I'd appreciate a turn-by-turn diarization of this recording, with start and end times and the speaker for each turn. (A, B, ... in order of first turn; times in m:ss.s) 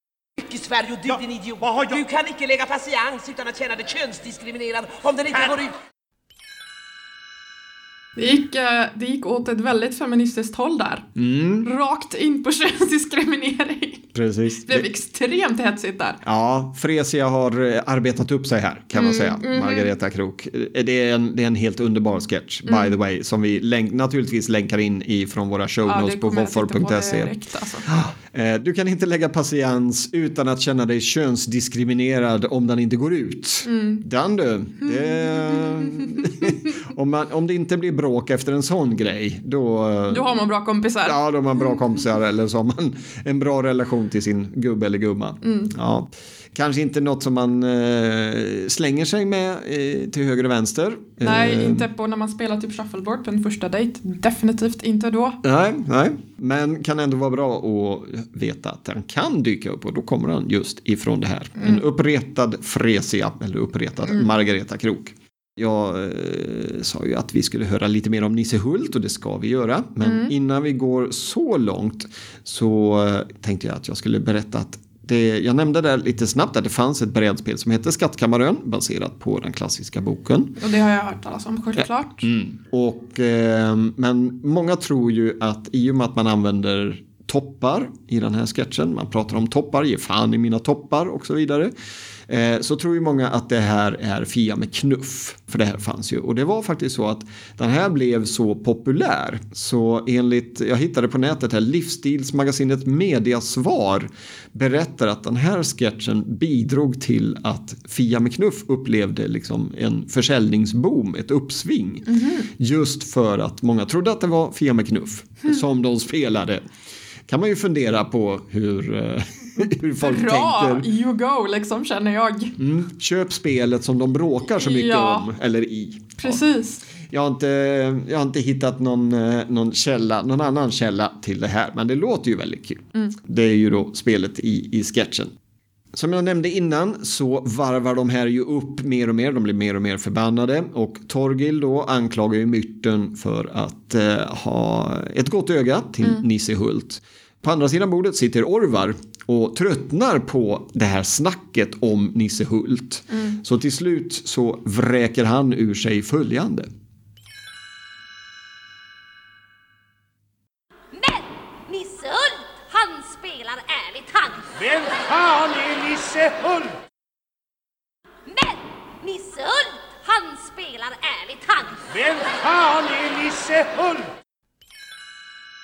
0:00.4-0:05.7 A
0:01.6-0:01.9 B
0:08.2-0:11.1 C
0:11.2-0:11.7 D
0:11.6-0:14.1 C
0:14.1-0:14.9 D
0:14.7-0:16.2 C
0:16.2-0:27.3 D
0:18.9-0:19.9 C
0:22.7-0:22.9 C
0:25.8-0:27.9 C
0:27.8-0:40.3 D
0:33.6-0:34.0 C
0:34.8-0:36.4 C
0:40.1-0:41.2 C
0:41.0-0:51.9 D
0:45.4-0:45.7 C
0:51.2-0:55.4 C
0:55.4-1:20.6 D
1:01.6-1:01.8 C
1:10.0-1:10.3 C
1:20.6-1:22.3 C
1:21.8-1:31.7 D
1:32.3-1:56.6 D
1:52.1-1:52.5 C
1:57.3-2:00.9 D
2:00.0-2:02.6 C
2:02.6-2:06.4 D
2:04.6-2:05.3 C
2:06.2-2:06.8 C
2:07.0-2:15.3 D
2:15.9-2:36.7 D
2:33.1-2:33.4 C
2:40.9-2:44.6 E
2:44.6-2:46.8 B
2:48.2-2:51.8 E
2:51.9-2:54.1 B